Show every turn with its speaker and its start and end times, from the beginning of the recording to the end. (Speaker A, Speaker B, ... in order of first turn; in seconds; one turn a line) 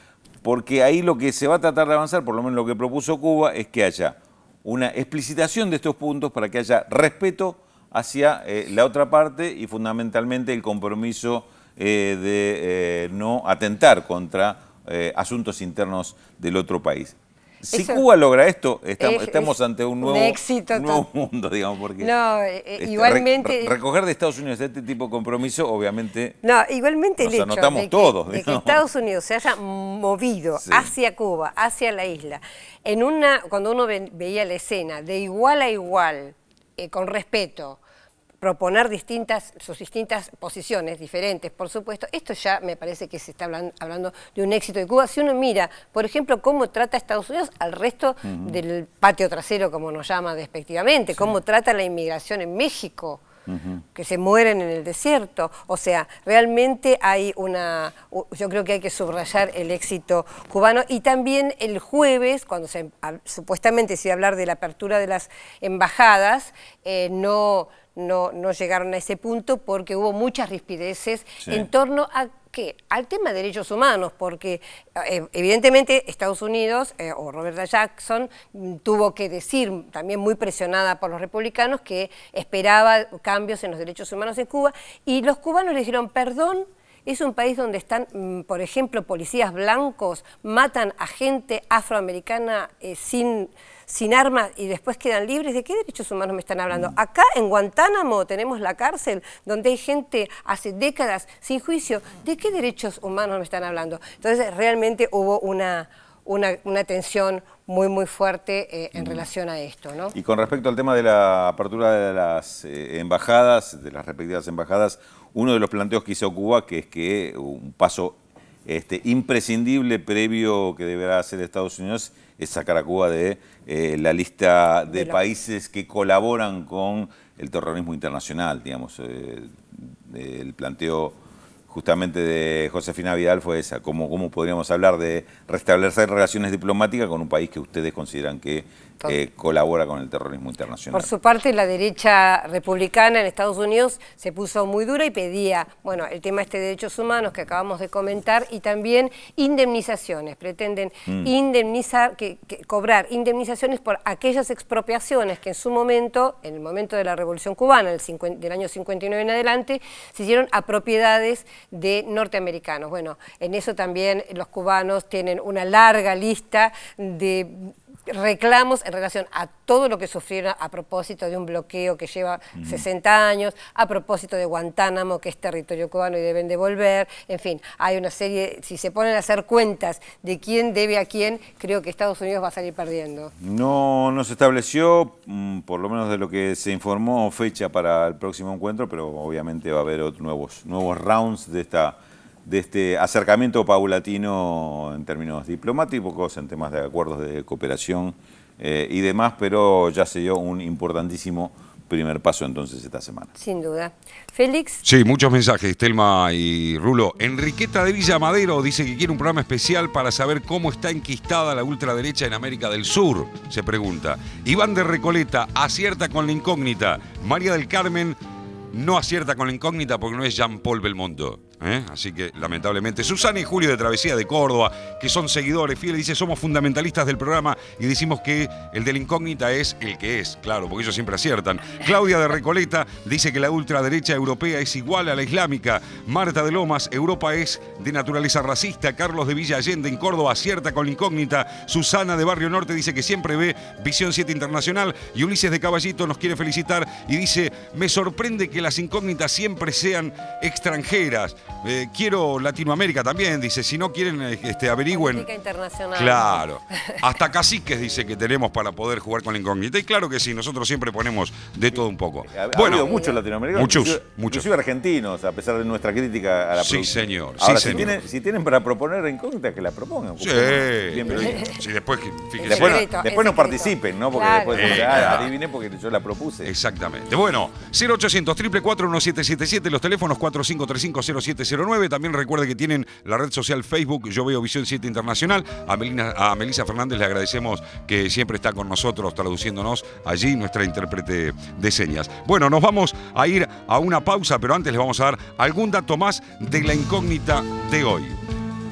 Speaker A: 0.4-22.1
Speaker B: 17.7-18.0
Speaker B: 19.0-21.1
Speaker B: 22.0-23.8
Speaker A: 22.8-26.4
Speaker B: 26.4-37.8
Speaker A: 27.2-28.8
Speaker A: 30.6-30.9
Speaker B: 38.4-53.2
Speaker A: 53.5-53.8
Speaker B: 53.9-110.2
Speaker A: 110.2-131.2
Speaker B: 124.9-125.2
Speaker A: 131.7-141.1
Speaker B: 140.9-183.3
Speaker A: 183.4-203.3
Speaker B: 203.4-204.8
Speaker C: 204.8-218.2
Speaker C: 218.7-255.2
Speaker B: 254.9-256.5
Speaker C: 255.9-262.9
Speaker A: 262.2-271.4
Speaker B: 262.6-263.2
Speaker C: 263.5-264.5
Speaker C: 266.6-268.0
Speaker C: 270.2-272.8
Speaker B: 271.1-271.6
Speaker B: 272.4-275.2
Speaker A: 272.4-276.5
Speaker C: 274.5-275.3
Speaker C: 276.4-298.2